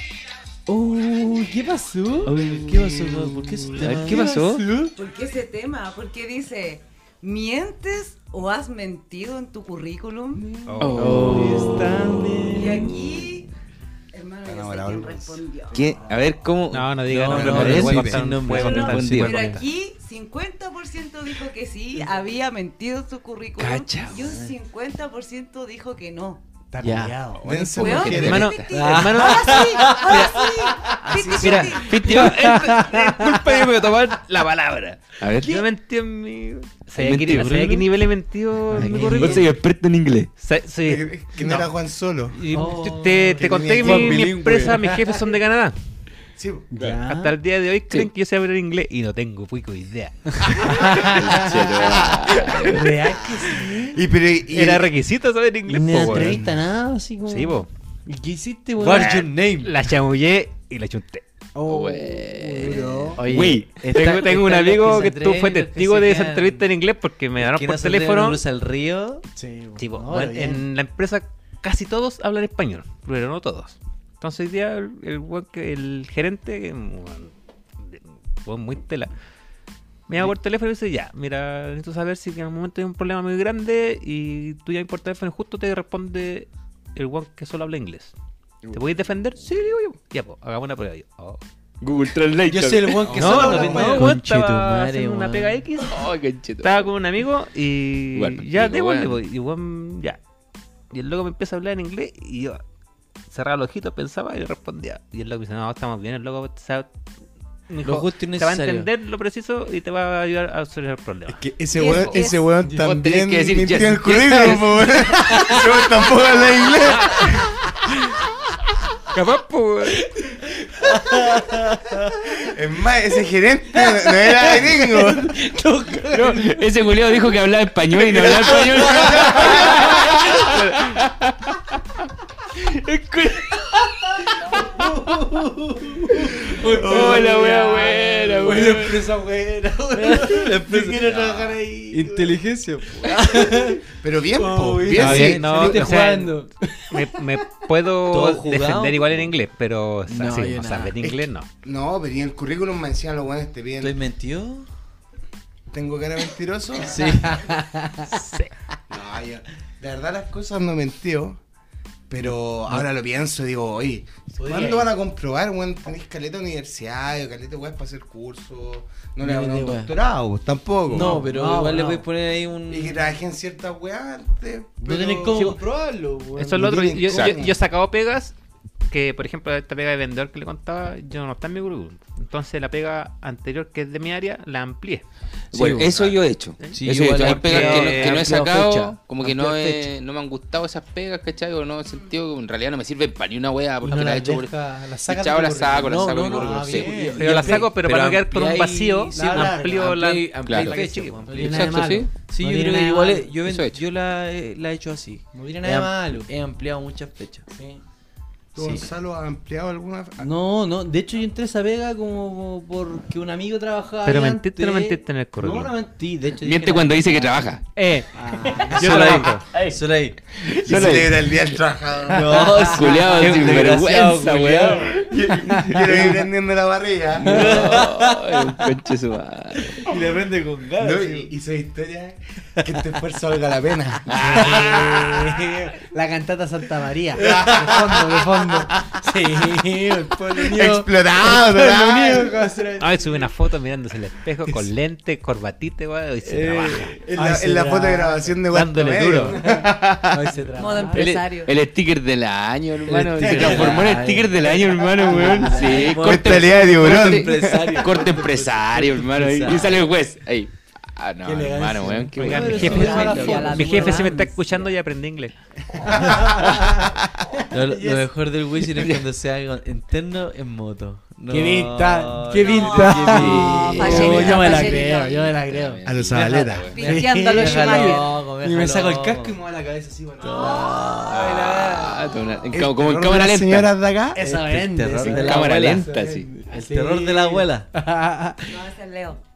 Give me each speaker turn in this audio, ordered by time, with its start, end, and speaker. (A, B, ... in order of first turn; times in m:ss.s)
0:00.7-0:02.4 A
0:02.2-0:04.3 B
0:03.2-0:05.0 A
0:03.8-0:04.6 C
0:05.0-0:10.6 D
0:10.6-0:11.3 E
0:10.8-0:12.1 B
0:10.9-0:13.0 A
0:11.0-0:11.9 C
0:12.5-0:13.5 D
0:14.1-0:15.9 D
0:14.5-0:15.9 F
0:15.7-0:17.8 C
0:16.7-0:19.6 E
0:17.1-0:19.6 B
0:17.3-0:18.2 F
0:18.5-0:19.6 C
0:18.6-0:26.4 D
0:23.6-0:24.0 C
0:23.8-0:24.4 B
0:24.2-0:24.5 A
0:26.7-0:28.1 A
0:26.8-0:27.2 B
0:27.4-0:28.5 F
0:27.8-0:28.7 C
0:27.8-0:32.2 D
0:28.2-0:30.0 E
0:28.7-0:30.3 B
0:29.5-0:30.0 A
0:31.0-0:31.8 F
0:31.4-0:39.5 E
0:31.8-0:33.8 A
0:35.2-0:35.5 C
0:37.0-0:37.5 C
0:37.0-0:37.9 B
0:37.2-0:37.9 A
0:38.7-0:39.5 B
0:38.7-0:39.4 A
0:39.0-0:40.3 C
0:40.4-0:41.6 E
0:40.8-0:42.4 F
0:42.3-0:45.8 E
0:42.5-0:44.2 A
0:42.5-0:43.0 B
0:43.4-0:44.2 F
0:43.7-0:45.2 B
0:46.4-0:46.7 F
0:46.7-0:47.4 A
0:47.0-0:51.1 E
0:50.6-0:54.0 A
0:50.7-0:52.8 C
0:52.4-0:52.7 E
0:53.9-0:54.9 F
0:54.5-0:56.4 E
0:55.7-0:59.3 A
0:56.0-0:56.5 F
0:57.3-0:57.7 E
0:58.8-0:59.8 B
0:58.9-1:01.2 E
1:01.6-1:03.2 A
1:01.7-1:04.0 C
1:03.2-1:06.7 B
1:03.8-1:08.4 E
1:07.4-1:09.2 B
1:09.3-1:10.6 A
1:09.8-1:19.1 E
1:20.1-1:28.1 E
1:28.7-1:31.4 E
1:31.8-1:33.2 C
1:32.5-1:34.0 A
1:33.0-1:34.0 F
1:33.1-1:40.2 E
1:33.5-1:35.6 B
1:35.8-1:36.9 C
1:38.2-1:39.2 C
1:40.9-1:42.6 E
1:43.3-1:46.9 E
1:47.7-1:52.2 E
1:47.8-1:48.9 B
1:51.3-1:57.5 F
1:51.7-1:52.6 D
1:52.7-1:55.6 C
1:55.3-1:55.6 A
1:56.9-1:57.4 E
1:59.1-2:00.0 E
2:00.2-2:02.5 A
2:02.4-2:05.4 F
2:03.8-2:06.7 A
2:06.1-2:11.6 C
2:08.2-2:10.1 A
2:08.9-2:09.9 F
2:12.8-2:13.6 C
2:14.2-2:22.4 A
2:15.1-2:17.2 B
2:16.6-2:17.2 F
2:16.6-2:19.1 C
2:19.9-2:21.1 B
2:21.0-2:21.6 C
2:21.9-2:23.8 B
2:23.0-2:23.8 A
2:24.0-2:26.0 F
2:24.4-2:27.2 A
2:25.0-2:26.4 E
2:25.0-2:25.4 B
2:26.9-2:31.5 E
2:28.1-2:29.3 B
2:30.1-2:30.9 B
2:31.0-2:34.0 F
2:33.8-2:34.7 B
2:35.7-2:37.2 F
2:36.8-2:37.5 B
2:37.4-2:38.1 A
2:38.1-2:38.5 E
2:38.9-2:41.4 F
2:42.1-2:51.2 F
2:44.4-2:44.9 A
2:49.2-2:49.8 A
2:49.3-2:49.9 B
2:50.9-2:52.0 A
2:50.9-2:53.1 B
2:52.7-2:55.6 F
2:54.8-2:56.7 A
2:56.4-2:57.6 F
2:56.4-2:58.4 E
2:57.1-2:57.4 C
2:58.9-3:05.0 E
3:05.5-3:14.5 C
3:05.5-3:06.2 B
3:06.0-3:08.4 E
3:06.7-3:09.9 B
3:11.8-3:12.2 D
3:13.8-3:17.6 A
3:15.0-3:16.9 C
3:15.8-3:27.5 B
3:17.1-3:21.4 E
3:19.1-3:19.9 A
3:20.5-3:20.8 C
3:21.3-3:23.4 A
3:21.4-3:22.1 C
3:23.5-3:23.8 C
3:25.3-3:26.3 A
3:27.5-3:27.8 A
3:28.5-3:30.3 F
3:28.6-3:28.8 B
3:30.2-3:37.5 A
3:34.0-3:35.7 E
3:36.4-3:37.6 C
3:37.8-3:39.5 E
3:38.1-3:39.2 A
3:38.7-3:40.2 B
3:39.5-3:39.8 C
3:40.3-3:41.6 C
3:40.6-3:42.8 F
3:40.7-3:41.0 B
3:42.1-3:45.1 B
3:42.6-3:45.9 C
3:43.2-3:43.5 A
3:43.2-3:43.8 E
3:45.0-3:47.8 F
3:45.6-3:45.9 A
3:47.2-3:48.6 B
3:47.2-3:49.8 C
3:49.7-3:51.3 B
3:50.8-3:55.1 F
3:54.1-3:55.2 C
3:54.2-4:03.3 A
3:57.1-3:59.0 F
4:00.3-4:02.4 F
4:02.8-4:07.0 E
4:06.2-4:07.0 B
4:07.1-4:10.5 F
4:07.1-4:08.4 A
4:08.5-4:09.4 E
4:09.4-4:11.0 A
4:10.6-4:11.5 D
4:10.9-4:23.0 C
4:12.9-4:19.8 B
4:13.2-4:16.0 A
4:16.0-4:17.8 F
4:21.2-4:24.1 A
4:22.2-4:25.3 E
4:22.3-4:24.0 B
4:22.5-4:24.7 D
4:25.8-4:26.9 A
4:25.9-4:26.2 F
4:27.5-4:34.8 B
4:27.5-4:28.1 A
4:31.3-4:42.2 A
4:32.4-4:35.3 D
4:33.1-4:36.8 C
4:35.8-4:36.7 F
4:36.7-4:38.1 D
4:36.8-4:39.4 B
4:40.2-4:41.4 B
4:40.3-4:40.7 D
4:41.1-4:43.7 C
4:42.5-4:44.2 F
4:44.2-4:48.6 A
4:44.2-4:45.9 B
4:45.0-4:46.3 C
4:46.5-4:47.7 B
4:48.4-4:49.2 D